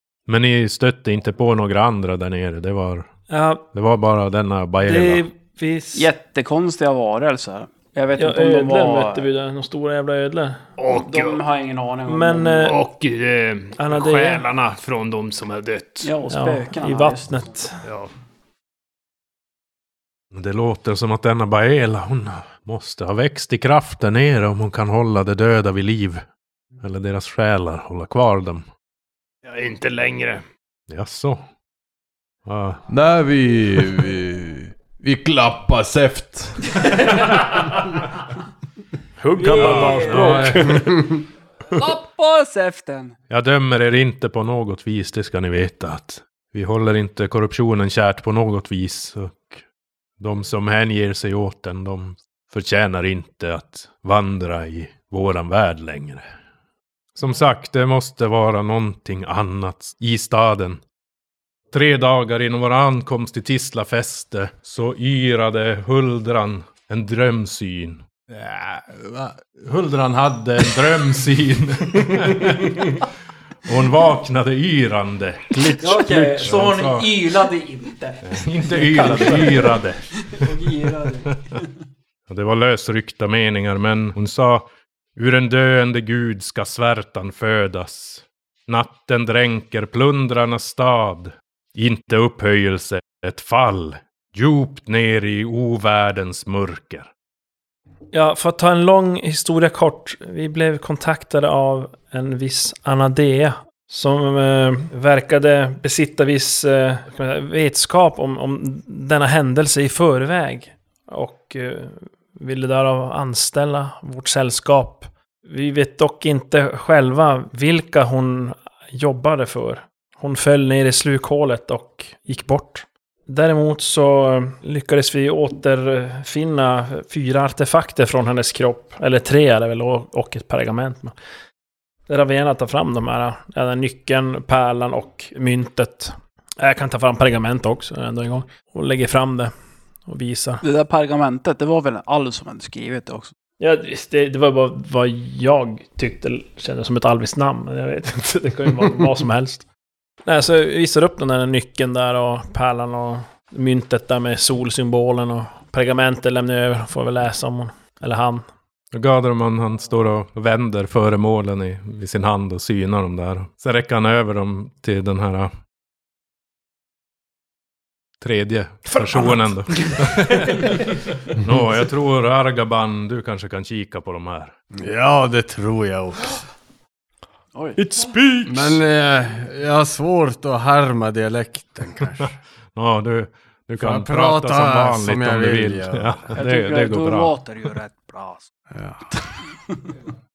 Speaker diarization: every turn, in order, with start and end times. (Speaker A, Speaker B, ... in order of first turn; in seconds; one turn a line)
Speaker A: 0.3-3.1
Speaker B: 3.3-3.6
Speaker A: 3.7-5.2
Speaker B: 4.8-6.1
Speaker C: 6.0-9.3
Speaker B: 8.2-10.6
Speaker D: 10.8-11.4
Speaker C: 10.9-12.7
Speaker B: 12.1-12.8
Speaker D: 12.6-16.1
Speaker B: 13.8-14.4
Speaker C: 16.0-17.5
Speaker B: 16.3-17.8
Speaker D: 17.9-18.1
Speaker A: 20.3-26.2
Speaker A: 26.8-28.7
Speaker D: 29.4-30.4
Speaker A: 30.9-31.4
Speaker A: 32.5-32.8
Speaker E: 32.9-37.2
Speaker B: 39.2-41.0
Speaker C: 39.4-40.8
Speaker A: 39.6-40.9
Speaker C: 41.7-43.1
Speaker A: 43.3-49.6
Speaker A: 50.2-56.3
Speaker A: 57.1-60.8
Speaker A: 61.7-73.1
Speaker A: 73.6-77.2
Speaker B: 75.6-76.2
Speaker C: 75.8-79.7
Speaker A: 78.2-80.4
Speaker C: 80.3-81.6
Speaker A: 82.3-97.1
Speaker B: 98.1-131.1
Speaker B: 132.1-140.6
Speaker C: 140.6-143.3
Speaker B: 143.6-149.7
Speaker B: 150.2-158.5
Speaker A: 158.9-165.5
Speaker A: 168.2-174.5
Speaker B: 168.9-170.0
Speaker F: 174.7-176.4
Speaker B: 177.8-178.8
Speaker F: 178.4-182.3
Speaker A: 182.1-187.4
Speaker F: 183.8-186.2
Speaker C: 186.3-188.5
Speaker F: 188.7-189.1